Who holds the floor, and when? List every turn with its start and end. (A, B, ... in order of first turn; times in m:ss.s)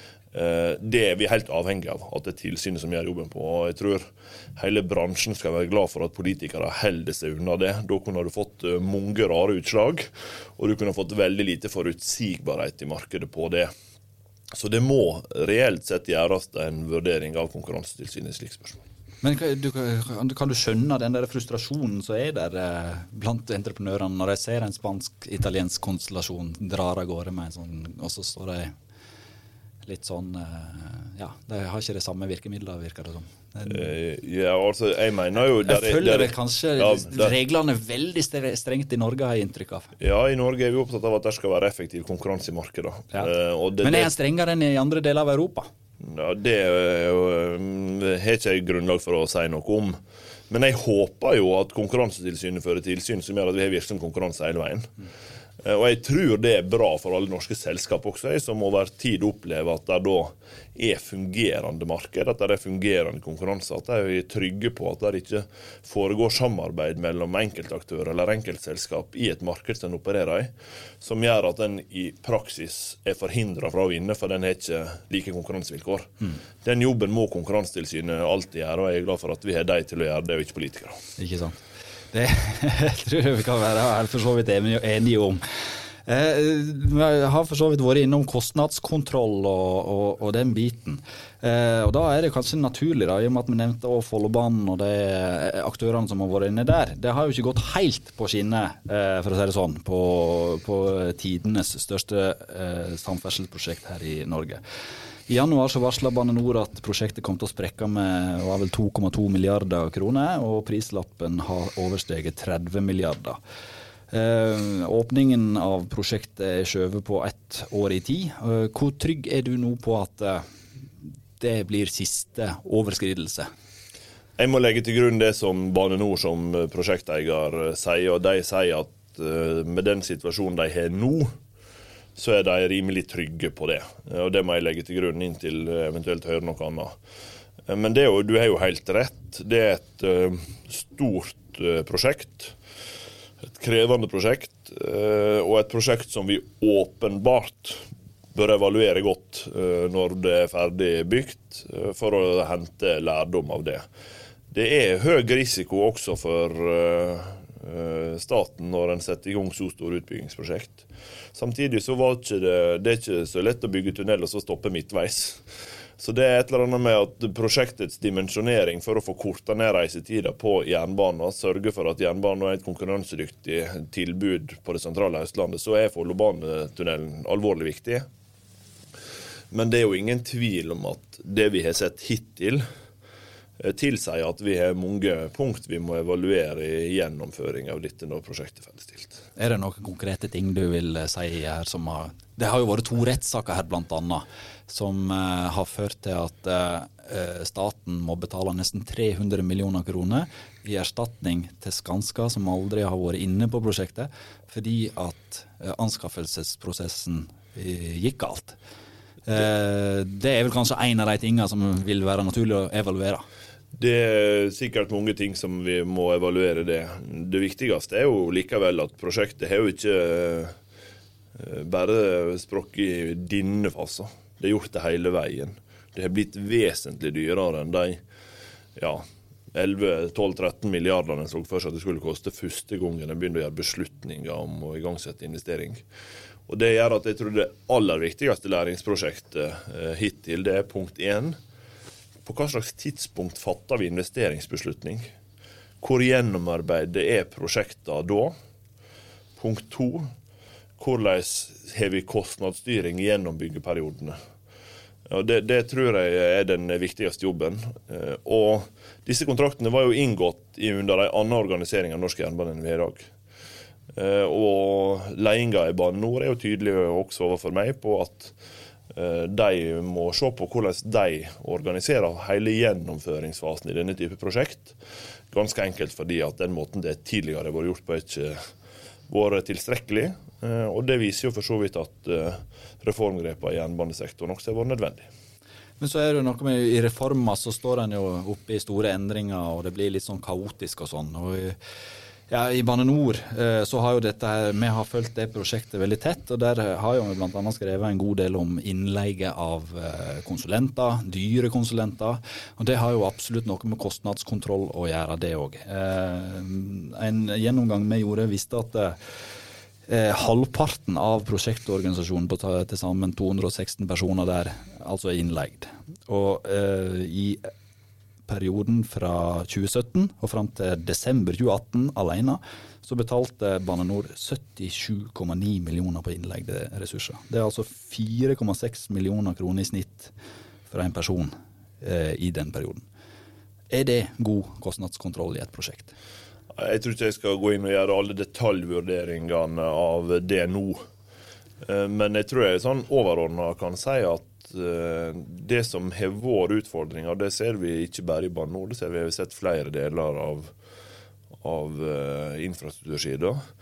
0:00.3-0:13.7 A
0:14.5-0:18.8 A
0:19.2-0:28.7 B
0:29.8-0:33.9 B
0:33.7-0:37.3 A
0:35.6-0:39.9 B
0:40.0-0:44.1 A
0:43.8-0:45.7 B
0:46.0-0:54.9 A
0:55.6-1:21.0 A
1:21.2-1:44.6 B
1:45.3-1:53.4 B
1:54.1-2:00.4 B
2:01.4-2:03.5 B
2:04.4-2:11.3 A
2:12.2-2:17.0 A
2:17.7-2:22.6 A
2:23.4-2:33.8 A
2:34.5-2:45.4 A
2:46.0-2:58.1 A
2:59.5-3:02.6 A
3:03.6-3:09.2 A
3:09.4-3:28.6 B
3:29.2-3:33.2 B
3:33.7-3:40.6 A
3:41.4-3:48.0 A
3:48.8-3:55.8 A
3:56.5-4:01.4 A
4:02.2-4:05.0 A
4:05.8-4:08.3 A
4:09.4-4:10.1 A
4:10.8-4:14.2 A
4:15.1-4:23.1 A
4:23.9-4:28.4 A
4:28.9-4:34.8 A
4:35.3-4:38.4 A
4:39.1-4:45.1 A
4:45.8-4:51.6 B
4:52.3-5:09.0 B
5:09.9-5:17.5 B
5:18.3-5:30.1 B
5:30.7-5:32.8 B
5:33.7-5:35.9 B
5:36.5-5:40.8 A
5:41.6-5:50.5 A
5:51.4-5:53.4 A